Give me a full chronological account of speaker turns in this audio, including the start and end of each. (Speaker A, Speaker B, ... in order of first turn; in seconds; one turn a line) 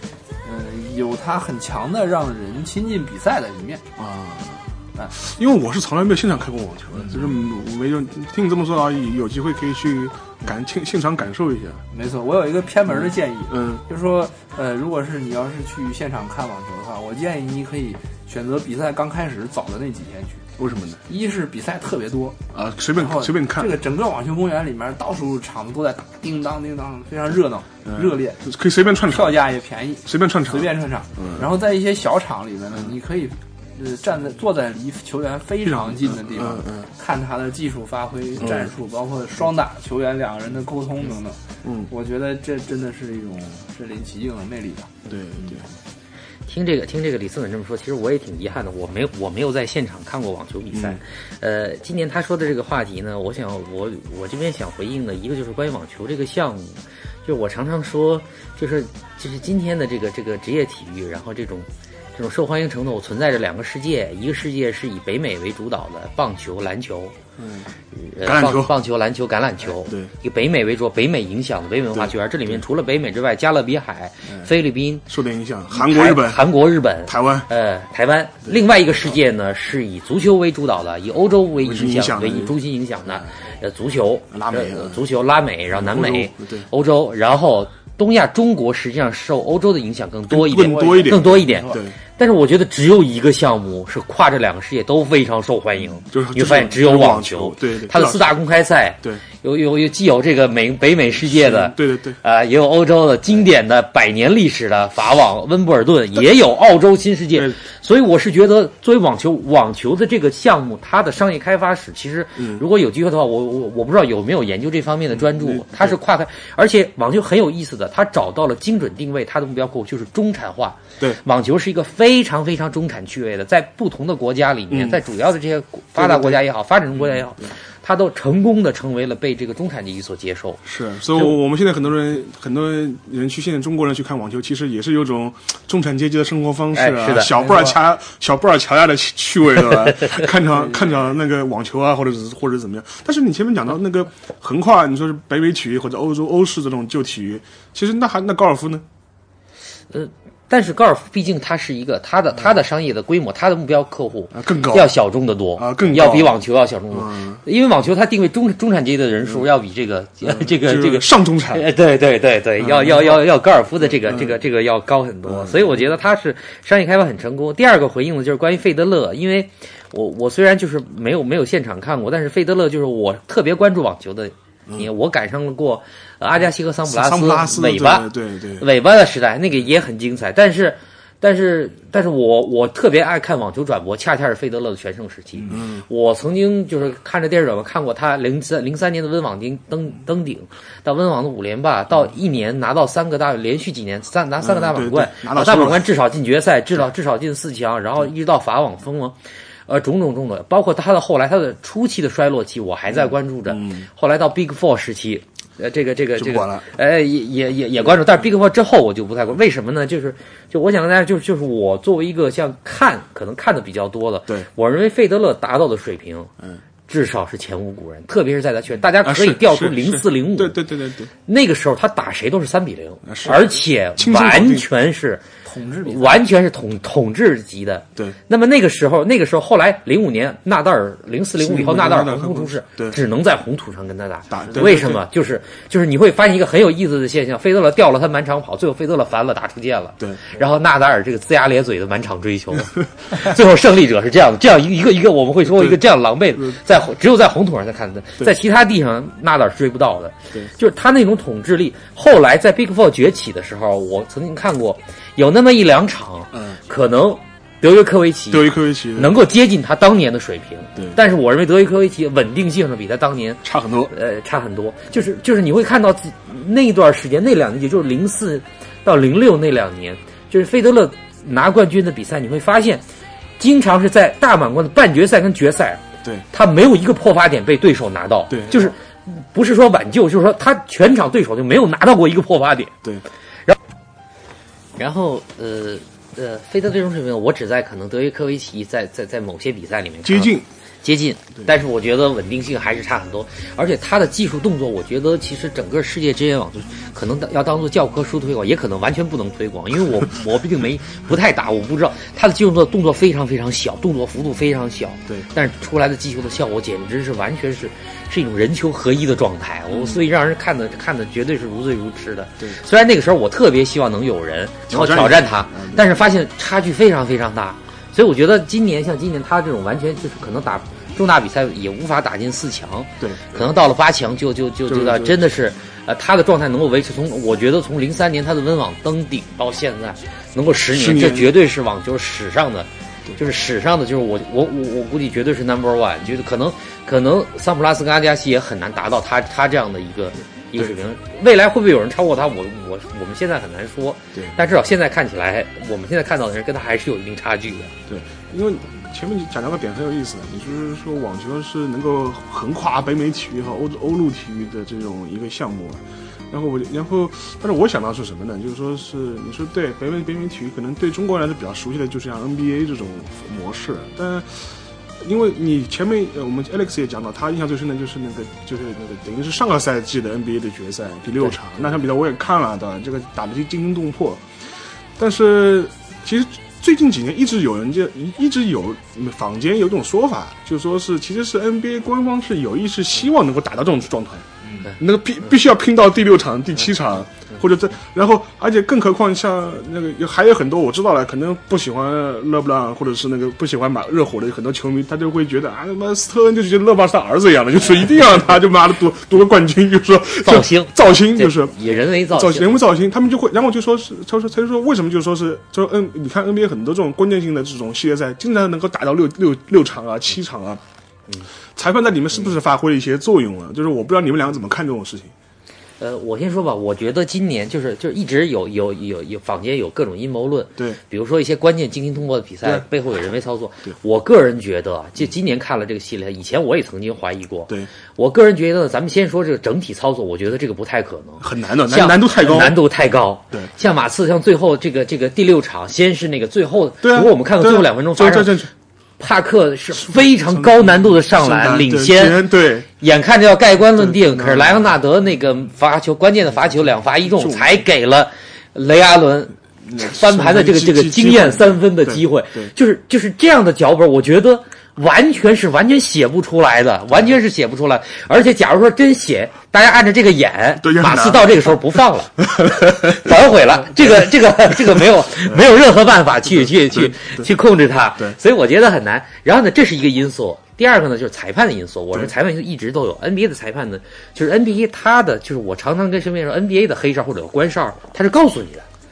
Speaker A: 0.4-3.8
Speaker B: 4.0-11.8
Speaker A: 7.0-7.4
Speaker A: 11.9-20.4
Speaker B: 12.9-13.8
Speaker B: 20.6-21.0
Speaker A: 21.1-22.4
Speaker B: 22.5-23.8
Speaker A: 22.9-28.4
Speaker B: 27.8-29.4
Speaker A: 29.0-45.0
Speaker B: 30.0-31.5
Speaker B: 35.6-36.9
Speaker B: 38.4-38.7
Speaker B: 41.6-41.9
Speaker B: 45.0-45.6
Speaker C: 46.5-67.1
Speaker B: 50.7-51.0
Speaker B: 67.4-67.7
Speaker C: 67.9-75.1
Speaker B: 68.2-68.7
Speaker B: 69.8-70.1
Speaker B: 75.1-76.5
Speaker C: 75.7-130.6
Speaker B: 77.0-77.5
Speaker B: 81.6-82.5
Speaker B: 84.3-85.0
Speaker B: 85.7-86.7
Speaker B: 90.3-92.0
Speaker A: 90.5-91.8
Speaker B: 96.1-98.3
Speaker B: 101.2-102.2
Speaker B: 107.3-107.6
Speaker B: 112.4-112.6
Speaker B: 115.1-116.0
Speaker B: 124.7-125.0
Speaker B: 126.0-126.4
Speaker B: 130.6-148.8
Speaker C: 136.7-137.3
Speaker A: 137.4-137.7
Speaker C: 149.9-199.1
Speaker B: 154.3-154.9
Speaker B: 155.6-156.4
Speaker B: 156.9-157.4
Speaker B: 160.2-161.6
Speaker B: 162.6-163.2
Speaker B: 164.0-164.3
Speaker B: 165.2-165.8
Speaker B: 176.8-178.7
Speaker B: 185.5-185.8
Speaker B: 194.4-195.9
Speaker C: 199.7-216.3
Speaker B: 203.5-203.9
Speaker B: 206.1-206.7
Speaker C: 216.9-220.6
Speaker B: 219.0-221.1
Speaker C: 221.2-225.2
Speaker B: 223.0-224.7
Speaker A: 225.4-226.2
Speaker C: 225.8-272.8
Speaker B: 231.4-233.0
Speaker B: 234.3-235.0
Speaker B: 245.5-245.8
Speaker B: 256.3-256.6
Speaker B: 258.3-259.1
Speaker B: 263.4-263.9
Speaker C: 273.4-282.7
Speaker B: 278.3-278.7
Speaker C: 284.8-347.7
Speaker B: 290.0-290.5
Speaker B: 309.7-310.0
Speaker B: 314.7-315.8
Speaker B: 323.0-323.3
Speaker B: 324.7-325.2
Speaker B: 330.7-331.3
Speaker B: 347.9-364.5
Speaker B: 365.0-374.2
Speaker B: 375.0-384.2
Speaker A: 384.4-384.7
Speaker B: 384.8-410.6
Speaker C: 400.2-402.6
Speaker B: 411.6-415.1
Speaker C: 415.8-438.5
Speaker B: 431.2-432.6
Speaker B: 436.8-438.5
Speaker C: 439.0-442.3
Speaker B: 439.8-442.7
Speaker C: 442.8-478.6
Speaker B: 443.7-444.7
Speaker B: 447.1-447.6
Speaker B: 449.6-452.5
Speaker B: 460.6-463.2
Speaker B: 463.7-465.4
Speaker B: 466.2-467.3